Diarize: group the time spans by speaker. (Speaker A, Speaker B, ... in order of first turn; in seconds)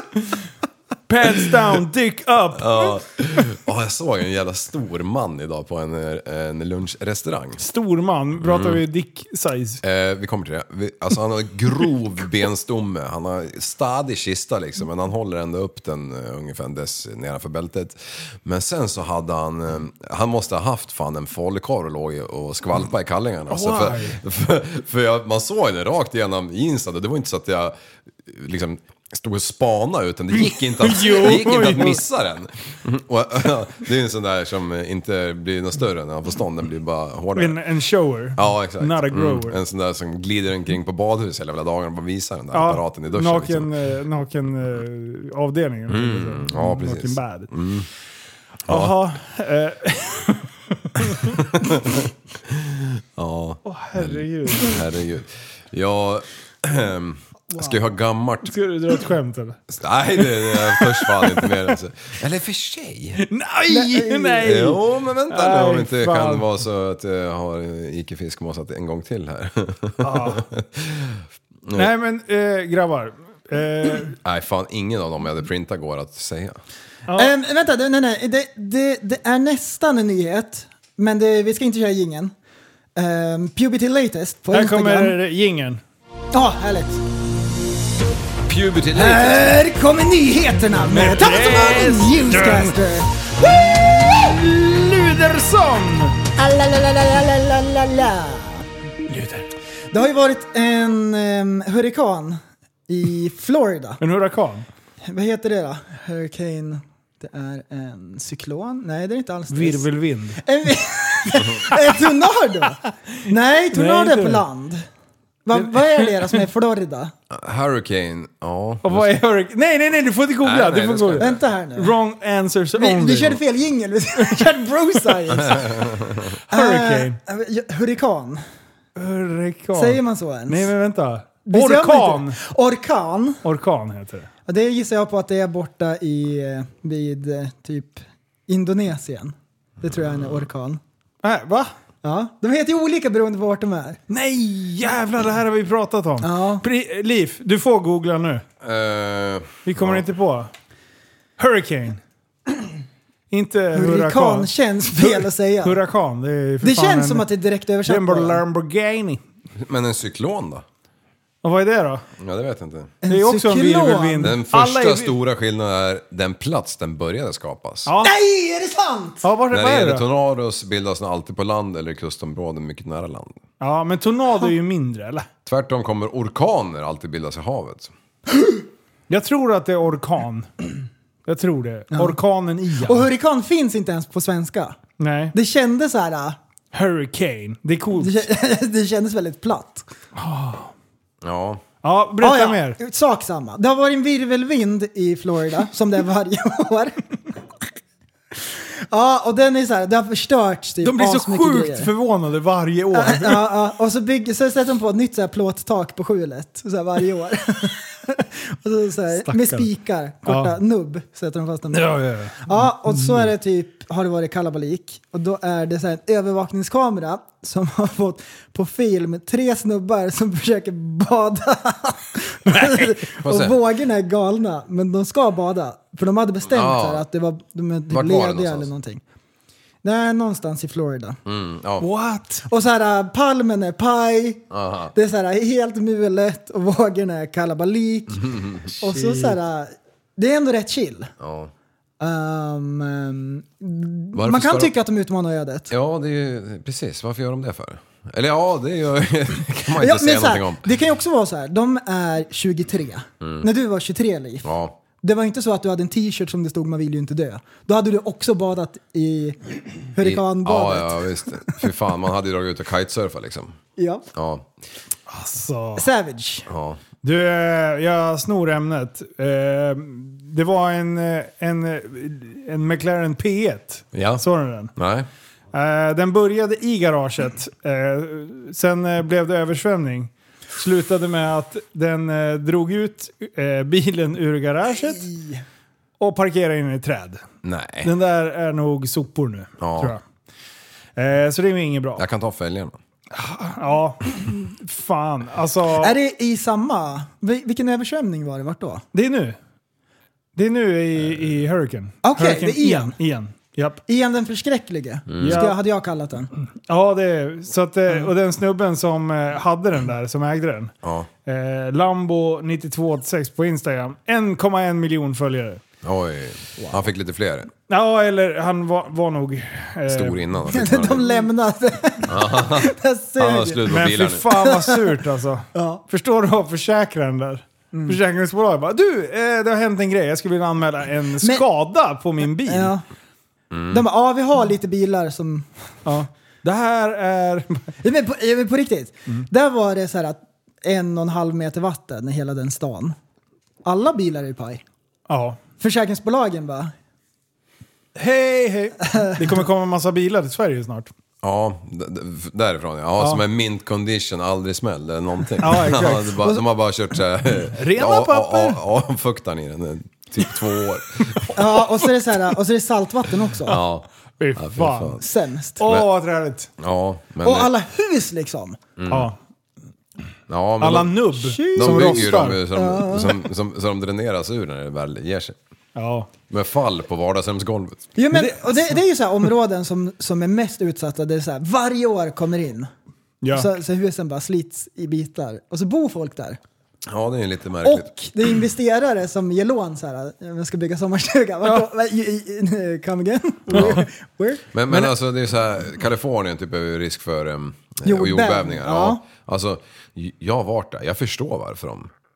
Speaker A: 1.1-3.0, 7.6-9.8, 23.5-24.2, 30.4-32.0, 37.4-39.6, 42.5-47.5, 48.7-51.4, 53.7-54.8, 58.4-59.6, 60.2-61.7, 63.2-66.5, 70.0-70.5, 71.8-74.2, 84.5-85.8, 90.8-92.8, 93.4-96.2, 99.1-99.5, 104.0-104.7, 109.5-110.4, 111.4-112.2, 113.3-114.4, 115.5-116.4, 118.8-123.4, 124.2-124.5, 126.5-127.2, 129.0-132.4, 133.4-134.3, 141.2-141.7, 144.1-148.4, 149.7-150.5, 151.4-152.0, 153.3-157.3, 157.9-159.2, 161.4-162.0, 163.1-165.2, 167.8-168.1, 169.2-170.1, 173.6-175.3, 179.1-180.5, 181.3-183.1, 185.0-185.3, 186.7-188.2, 190.2-190.7, 191.8-192.8, 200.8-203.5, 209.2-209.7, 210.2-210.6, 211.7-213.3, 222.5-223.0, 231.8-232.5, 238.8-239.3, 265.1-265.9, 267.0-274.7, 275.5-285.1, 286.0-287.2, 287.8-290.0, 291.0-292.0, 293.1-295.9, 298.9-299.4, 300.4-303.8, 305.2-305.6, 306.7-310.7, 311.3-315.6, 317.7-320.3, 323.7-332.8, 335.9-337.7, 345.1-345.4, 348.0-350.9, 355.4-356.3, 357.6-358.6, 361.2-361.8, 364.2-365.0, 365.6-366.5, 368.9-369.2, 370.6-372.4, 375.8-376.1, 378.1-378.8, 383.2-383.5
Speaker B: 2.5-7.6, 8.4-8.8, 9.8-37.6, 38.4-43.7, 45.9-47.9, 48.7-48.9, 51.5-58.5, 59.7-63.3, 64.4-71.9, 74.2-76.6, 88.5-89.5, 117.3-119.2, 120.4-121.4, 125.6-126.3, 140.0-140.4, 148.6-150.0, 159.6-160.7, 162.2-162.9, 164.2-167.9, 169.5-173.4, 175.5-177.9, 191.2-191.6, 223.2-223.6, 226.5-227.1, 227.9-228.7, 231.2-231.9, 234.5-234.9, 238.1-238.7, 241.2-241.5, 244.1-244.7, 245.7-250.7, 253.2-253.5, 254.4-254.8, 260.0-263.6, 264.1-264.5, 266.5-266.8, 273.9-274.2, 274.8-275.1, 287.4-287.9, 289.6-289.9, 292.0-292.8, 305.1-305.4, 310.8-311.1, 315.8-317.5, 319.9-321.1, 322.1-324.2, 333.5-333.8, 351.2-361.3, 363.4-365.0, 366.6-367.5, 368.8-369.1, 370.3-371.0, 371.5-375.4, 376.3-377.9, 386.9-387.9, 393.5-393.8, 394.5-401.9
Speaker C: 63.7-64.5, 77.2-82.3, 83.0-85.2, 86.3-87.0, 88.9-93.1, 96.4-98.7, 99.9-104.0, 105.0-109.9, 110.4-114.8, 115.5-117.1, 121.2-122.0, 122.8-125.8, 126.5-128.4, 129.8-130.7, 131.5-133.4, 134.5-140.8, 142.0-144.0, 146.2-146.6, 153.7-155.8, 156.6-158.4, 163.0-164.3, 168.0-169.3, 182.8-184.8, 185.3-186.4, 188.0-189.9, 192.2-197.0, 198.9-201.9, 202.9-229.0, 229.8-231.2, 232.5-234.4, 234.9-241.1, 242.0-245.7, 249.8-254.5, 255.0-261.5, 263.8-264.1, 265.8-266.5, 295.8-298.9, 302.0-302.9, 303.9-306.3, 320.5-323.6, 324.3-324.8, 325.5-325.8, 327.7-328.0, 332.5-332.8, 333.7-335.5, 337.8-343.0, 343.6-344.6, 345.6-346.7, 349.0-349.3, 361.3-363.6, 365.0-365.6, 367.2-368.6, 371.2-373.2, 378.0-382.7, 383.3-386.4, 387.6-394.4, 397.9-399.0